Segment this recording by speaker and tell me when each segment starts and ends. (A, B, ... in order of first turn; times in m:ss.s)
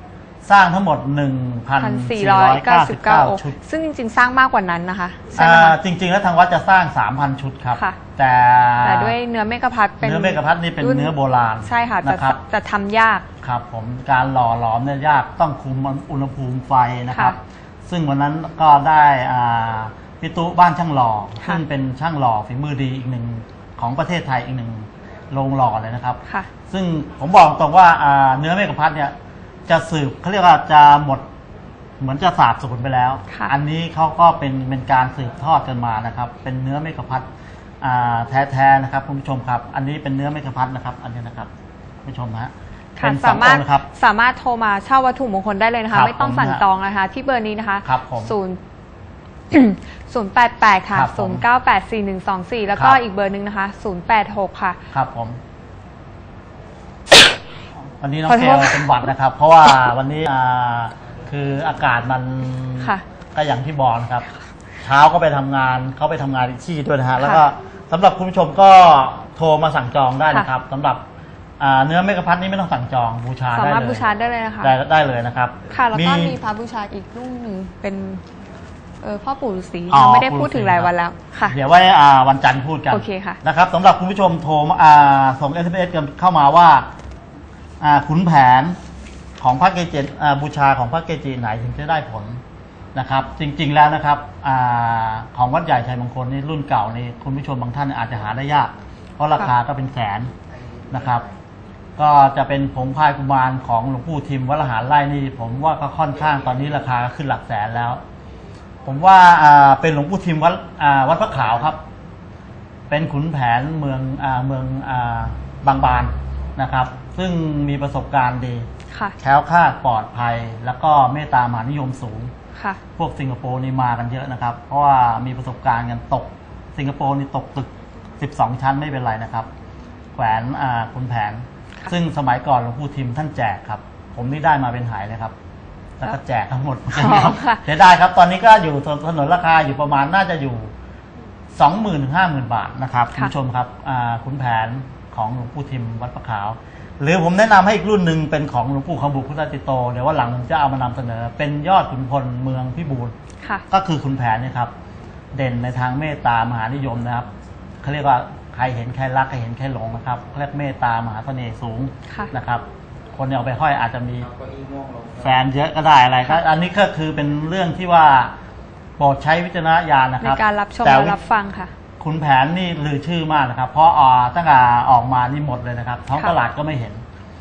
0:00.4-0:03.6 A
0:01.8-0:05.8 B
0:05.3-0:09.2 A
0:08.8-0:13.3 B
0:10.0-0:12.4 A
0:13.4-0:29.1 A
0:17.1-0:17.4 B
0:29.7-0:31.2 A
0:32.0-0:37.3 A
0:33.3-0:33.6 B
0:37.8-0:41.5 A
0:42.0-0:43.8 A
0:43.0-0:48.6 B
0:45.9-0:46.6 A
0:47.8-0:48.3 A
0:49.5-0:54.8 B
0:50.9-0:51.4 A
0:52.7-0:53.0 A
0:54.9-0:55.4 A
0:58.0-1:04.3 A
0:58.3-0:58.8 B
1:04.8-1:11.0 A
1:07.2-1:07.4 B
1:11.6-1:14.0 A
1:13.5-1:14.7 B
1:14.6-1:16.4 A
1:15.7-1:18.2 B
1:19.0-1:21.6 B
1:19.9-1:20.9 A
1:21.4-1:26.9 A
1:22.9-1:23.4 B
1:27.8-1:28.7 A
1:29.4-1:32.4 A
1:32.9-1:40.3 A
1:40.9-1:41.2 A
1:42.0-1:48.0 A
1:48.8-1:51.8 A
1:52.9-1:58.7 A
1:59.2-2:02.3 A
2:03.0-2:09.5 A
2:10.2-2:15.3 A
2:16.0-2:20.7 A
2:16.9-2:17.6 B
2:21.6-2:33.1 A
2:33.7-2:34.7 A
2:35.3-2:37.3 A
2:37.8-2:42.6 A
2:43.2-2:44.3 A
2:45.2-2:48.3 A
2:49.0-2:51.2 A
2:50.2-2:51.7 B
2:52.0-2:57.0 A